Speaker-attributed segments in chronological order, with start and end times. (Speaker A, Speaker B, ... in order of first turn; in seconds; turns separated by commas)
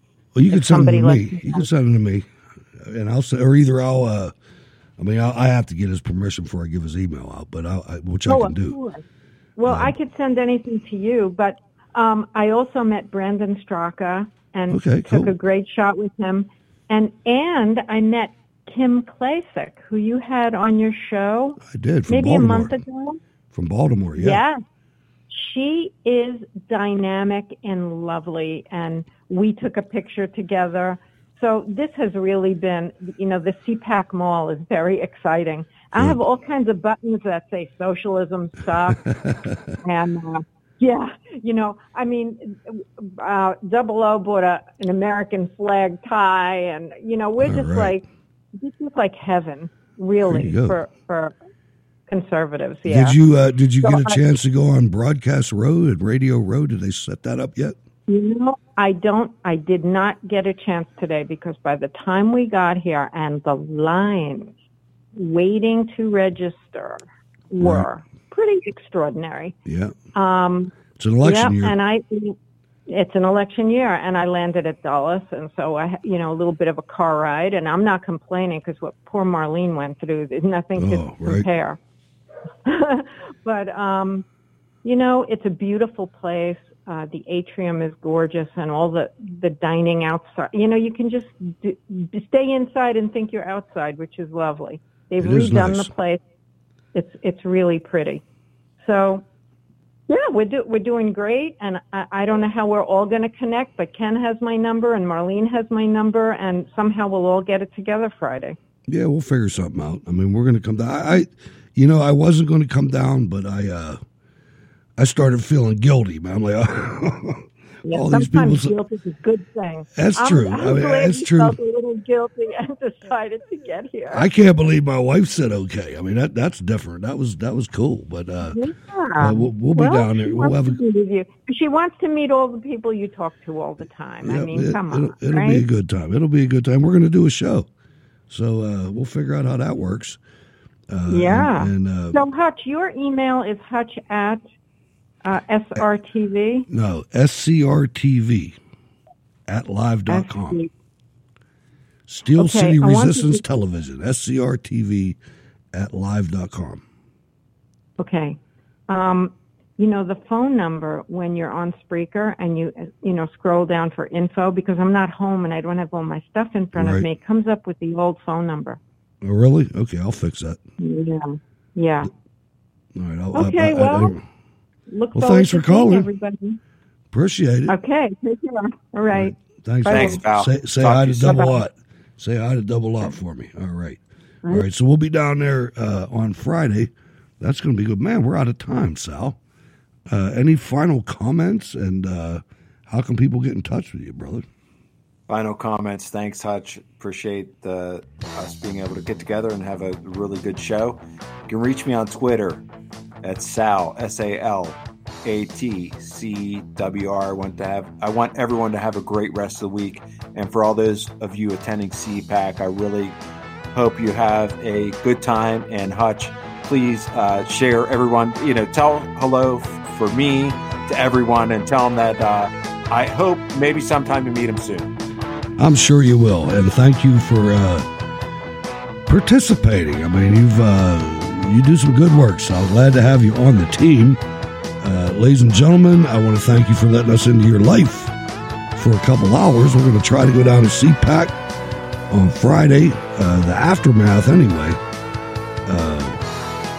Speaker A: 0.4-2.3, Speaker B: 0.5-1.7, Speaker A: 2.9-4.3, Speaker A: 5.0-8.8, Speaker B: 8.3-9.0, Speaker B: 9.6-21.6, Speaker A: 9.6-9.9, Speaker A: 14.7-15.3, Speaker A: 21.7-22.8, Speaker B: 22.1-23.2, Speaker A: 23.5-24.4, Speaker B: 24.2-24.6, Speaker B: 25.3-39.0, Speaker A: 38.9-39.7, Speaker B: 39.8-48.0, Speaker A: 47.4-48.0, Speaker B: 48.6-51.4, Speaker A: 50.2-50.8, Speaker B: 52.1-53.2, Speaker A: 52.9-57.8, Speaker B: 53.8-54.2, Speaker B: 58.1-64.5, Speaker B: 65.2-69.5, Speaker A: 67.6-67.9, Speaker A: 69.7-70.0, Speaker B: 70.2-72.3, Speaker A: 71.0-71.8, Speaker B: 72.9-81.8, Speaker A: 80.8-81.5, Speaker B: 82.7-84.2, Speaker B: 84.8-96.2, Speaker A: 95.2-95.9, Speaker B: 97.0-98.2, Speaker B: 98.8-99.2, Speaker B: 100.1-108.6, Speaker A: 108.9-114.0, Speaker A: 115.0-118.8, Speaker B: 117.9-124.3, Speaker A: 120.0-121.6, Speaker A: 124.1-128.6, Speaker B: 128.4-135.6, Speaker A: 129.2-130.8, Speaker A: 134.2-137.7, Speaker A: 138.3-140.2, Speaker A: 140.9-142.2, Speaker B: 141.1-144.4, Speaker B: 145.2-146.7, Speaker A: 146.7-148.6, Speaker A: 149.5-150.6, Speaker B: 150.1-150.7, Speaker A: 152.1-155.2, Speaker B: 152.4-153.4, Speaker A: 155.7-156.8, Speaker B: 158.0-158.4, Speaker B: 158.9-168.8, Speaker A: 166.8-167.1, Speaker A: 169.2-170.6, Speaker B: 170.8-172.1, Speaker A: 172.9-174.2, Speaker B: 173.3-174.1, Speaker B: 174.9-176.6, Speaker A: 175.1-176.1, Speaker A: 177.1-177.7, Speaker B: 177.7-179.3, Speaker A: 179.1-189.4, Speaker B: 179.8-180.2, Speaker C: 179.9-181.5, Speaker B: 181.2-181.6, Speaker A: 190.1-194.4, Speaker C: 195.3-202.6, Speaker C: 203.2-213.2, Speaker C: 213.7-224.9, Speaker A: 225.6-227.9, Speaker A: 229.1-234.2, Speaker A: 234.8-238.1, Speaker A: 238.8-241.4, Speaker A: 242.1-244.8, Speaker A: 245.7-246.2